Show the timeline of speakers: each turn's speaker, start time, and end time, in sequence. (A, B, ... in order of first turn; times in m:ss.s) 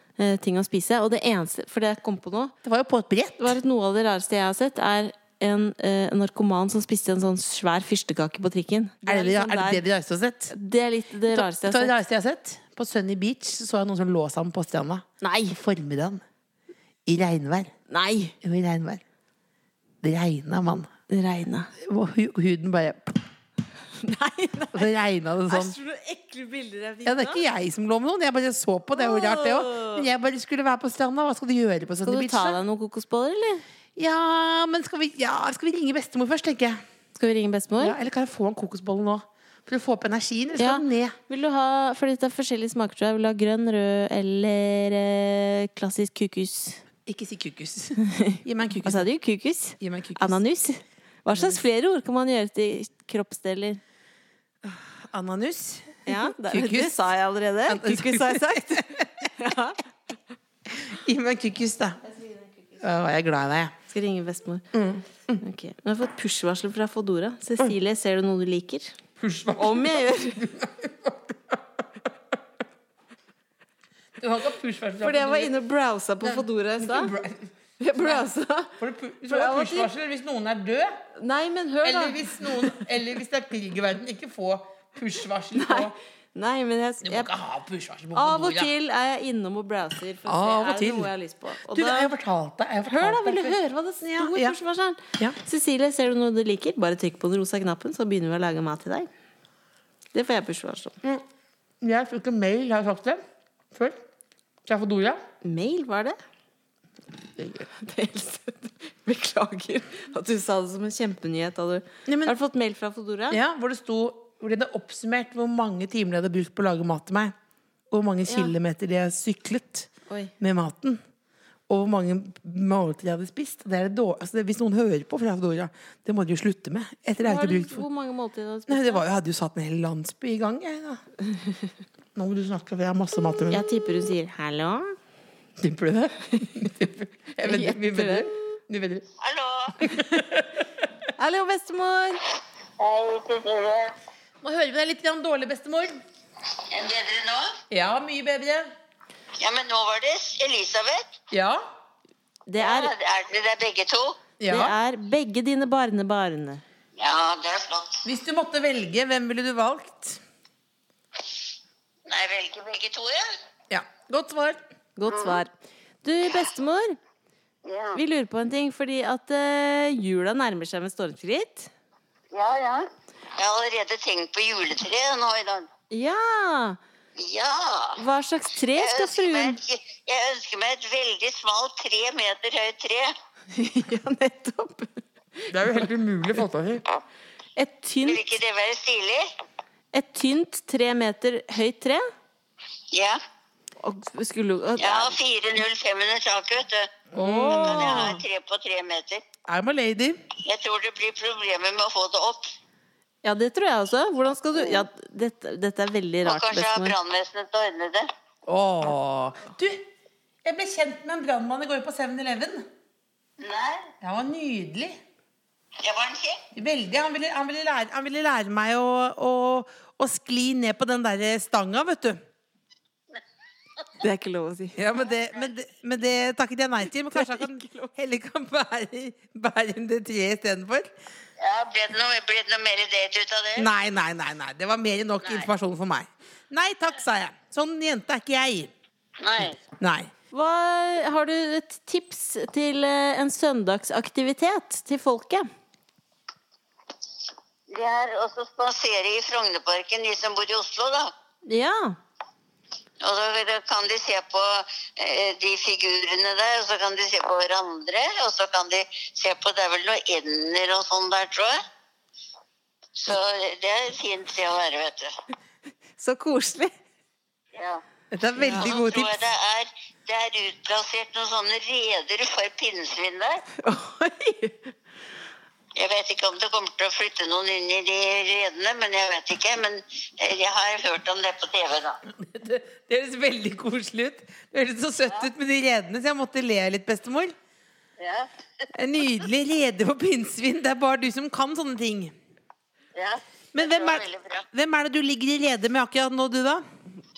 0:00.2-0:02.5 A
0:02.6-0:03.5 B
0:03.4-0:09.8 A
0:09.1-0:10.5 B
0:10.5-0:12.0 A
0:11.3-0:16.2 B
0:15.2-0:15.6 A
0:17.1-0:17.7 B
0:17.9-0:18.3 A
0:18.4-0:19.0 B
0:20.0-0:20.9 B
0:21.1-0:21.7 A
0:21.8-0:23.3 B
0:24.0-0:24.9 A
0:24.7-0:25.8 B
0:25.5-0:27.4 A
0:27.0-0:32.6 B
0:28.9-0:30.1 A
0:32.0-0:33.6 A
0:34.0-0:36.8 B
0:37.2-0:38.0 A
0:37.8-0:41.2 B
0:40.6-0:46.8 A
0:47.1-0:49.1 B
0:48.0-0:53.8 A
0:49.8-0:50.4 B
0:51.3-0:51.6 B
0:54.6-0:57.0 B
0:56.1-0:59.8 A
0:57.7-0:59.3 B
1:00.7-1:02.0 B
1:02.0-1:02.8 A
1:02.8-1:03.8 B
1:03.9-1:04.7 A
1:04.7-1:05.4 B
1:05.4-1:09.0 A
1:09.2-1:11.6 B
1:09.6-1:10.5 A
1:14.2-1:15.5 B
1:15.0-1:17.1 A
1:16.2-1:18.3 B
1:17.8-1:18.8 A
1:18.8-1:21.0 B
1:19.3-1:19.9 A
1:21.2-1:22.8 A
1:21.8-1:26.0 B
1:25.5-1:27.3 A
1:27.0-1:28.7 B
1:28.2-1:32.1 A
1:30.3-1:31.1 B
1:31.7-1:34.6 B
1:32.9-1:39.1 A
1:40.1-1:41.0 A
1:41.8-1:43.2 B
1:43.7-1:44.0 B
1:44.7-1:45.2 B
1:45.4-1:46.2 A
1:47.4-1:53.4 A
1:52.1-1:52.4 B
1:53.3-1:57.4 B
1:57.9-2:01.0 B
1:58.3-1:58.5 A
2:01.7-2:07.8 B
2:07.2-2:09.0 A
2:08.7-2:11.0 B
2:12.2-2:13.6 B
2:13.5-2:15.0 A
2:15.6-2:19.1 B
2:17.4-2:18.4 A
2:19.2-2:19.8 C
2:19.8-2:20.6 B
2:21.2-2:22.2 A
2:22.8-2:24.0 C
2:24.4-2:26.0 B
2:26.7-2:27.6 C
2:27.7-2:28.7 B
2:29.4-2:31.1 C
2:31.3-2:31.6 B
2:32.5-2:32.9 A
2:32.6-2:34.2 C
2:34.4-2:34.8 B
2:34.5-2:36.6 A
2:37.0-2:38.0 C
2:38.0-2:40.2 B
2:42.1-2:43.3 C
2:43.7-2:44.6 B
2:45.0-2:47.0 A
2:45.1-2:45.4 C
2:47.6-2:48.0 C
2:47.9-2:51.7 A
2:52.3-2:55.7 C
2:55.9-2:56.8 A
2:57.2-2:58.0 C
2:58.0-2:59.6 A
2:58.8-3:03.1 C
3:03.5-3:05.8 A
3:05.5-3:06.8 B
3:07.6-3:08.2 A
3:08.1-3:09.3 C
3:09.9-3:12.1 A
3:12.9-3:13.2 C
3:13.8-3:15.1 A
3:14.8-3:19.2 C
3:17.1-3:18.1 B
3:17.2-3:18.2 A
3:19.5-3:20.2 B
3:20.4-3:22.5 C
3:23.2-3:27.0 A
3:26.2-3:28.1 C
3:28.5-3:29.9 B
3:30.4-3:32.7 B
3:33.4-3:33.9 C
3:34.0-3:35.0 B
3:35.8-3:36.4 C
3:36.5-3:42.2 B
3:44.0-3:44.8 A
3:44.8-3:50.9 B
3:47.1-3:47.9 A
3:51.4-3:53.7 C
3:53.6-3:58.7 B
3:59.2-3:59.6 C
3:59.8-4:00.1 B
4:00.3-4:05.5 A
4:07.7-4:11.1 C
4:11.5-4:12.0 A
4:13.0-4:21.6 C
4:23.0-4:25.1 C
4:26.0-4:26.7 A
4:27.5-4:27.8 C
4:28.1-4:29.2 B
4:28.4-4:33.4 C
4:33.6-4:34.7 A
4:35.8-4:42.0 C
4:42.1-4:47.4 B
4:48.0-4:48.3 C
4:48.7-4:52.2 B
4:53.0-4:54.4 C
4:53.5-4:56.6 B